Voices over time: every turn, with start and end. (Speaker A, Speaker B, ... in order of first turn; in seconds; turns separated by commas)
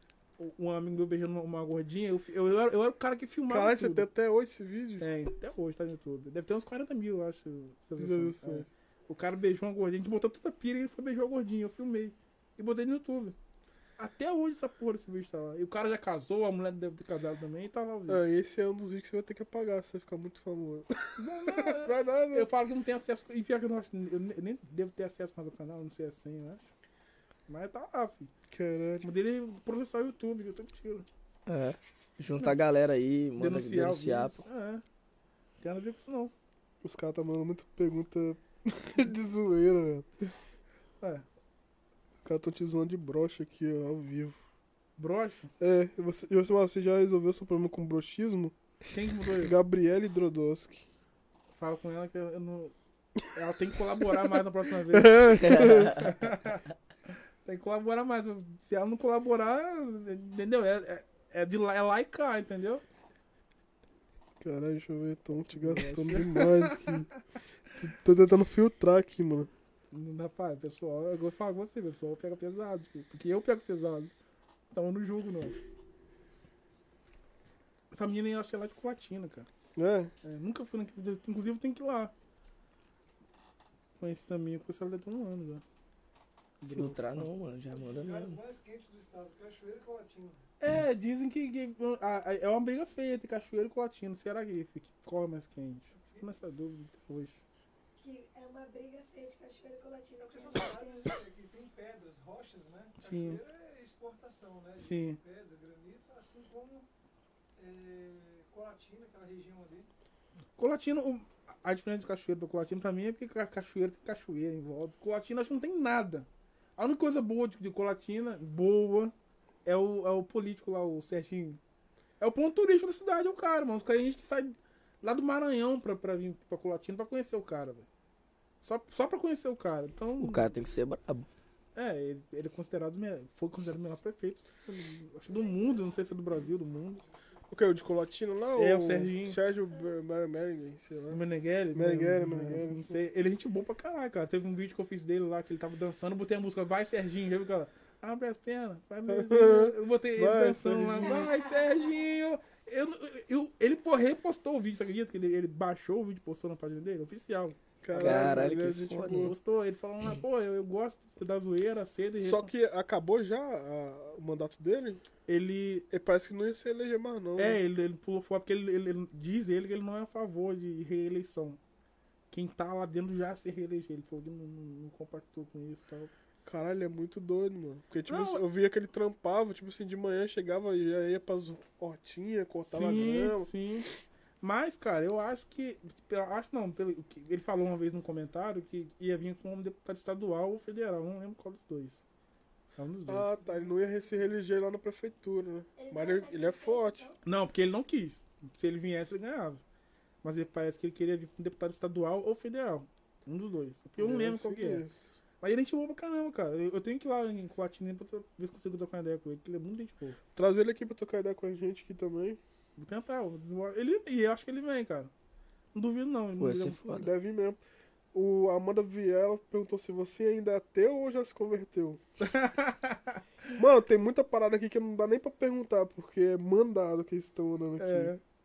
Speaker A: 0.4-4.1, Speaker B: 3.5-5.0, Speaker A: 5.0-13.3, Speaker B: 8.0-8.7, Speaker A: 14.0-18.2, Speaker B: 18.1-22.5, Speaker A: 21.2-26.7, Speaker A: 27.5-28.3, Speaker B: 28.5-29.1, Speaker A: 29.0-31.1, Speaker C: 31.4-34.4, Speaker A: 33.4-34.8, Speaker A: 35.6-36.3, Speaker B: 36.8-40.1, Speaker A: 41.0-41.2, Speaker B: 42.2-44.4, Speaker A: 45.0-45.5, Speaker B: 45.6-48.5, Speaker A: 48.9-49.5, Speaker B: 49.4-50.8, Speaker A: 51.5-52.7, Speaker A: 53.3-62.8, Speaker B: 54.9-56.0, Speaker C: 55.4-56.0, Speaker B: 64.4-67.1, Speaker A: 65.5-67.1, Speaker B: 67.8-69.5, Speaker A: 69.9-74.1, Speaker A: 74.7-75.6, Speaker A: 77.9-79.5, Speaker B: 79.8-80.1, Speaker A: 80.2-82.1, Speaker A: 84.0-85.6, Speaker A: 86.6-87.3, Speaker C: 86.7-88.4, Speaker D: 87.7-90.4, Speaker A: 90.6-97.4, Speaker D: 95.9-96.3, Speaker E: 98.0-101.1, Speaker D: 100.2-106.8, Speaker A: 103.0-103.4, Speaker A: 104.8-105.2, Speaker D: 107.6-109.9, Speaker A: 110.6-119.1, Speaker A: 119.6-121.6, Speaker A: 122.2-127.9, Speaker A: 128.6-130.5, Speaker C: 130.2-131.3, Speaker A: 131.7-137.0, Speaker D: 135.4-136.0, Speaker B: 137.5-141.2, Speaker A: 138.6-139.4, Speaker A: 141.1-162.5, Speaker B: 141.7-143.0, Speaker B: 149.1-151.3, Speaker E: 151.0-151.9, Speaker B: 157.8-159.3, Speaker C: 157.9-159.3, Speaker B: 162.2-165.0, Speaker A: 165.3-165.9, Speaker B: 165.9-167.6, Speaker A: 167.4-171.6, Speaker A: 172.3-176.1, Speaker B: 176.4-183.5, Speaker A: 178.1-178.4, Speaker A: 182.6-183.9, Speaker A: 184.4-192.0, Speaker A: 192.8-193.3, Speaker B: 193.1-197.1, Speaker E: 195.8-197.2, Speaker A: 197.2-199.6, Speaker A: 200.2-204.8, Speaker B: 204.0-205.0, Speaker A: 205.4-210.2, Speaker B: 210.3-212.4, Speaker A: 212.8-215.1, Speaker A: 215.7-217.0, Speaker C: 216.4-217.1, Speaker B: 216.9-217.6, Speaker B: 218.1-222.0, Speaker A: 222.2-223.2, Speaker B: 223.6-228.1, Speaker A: 227.8-228.2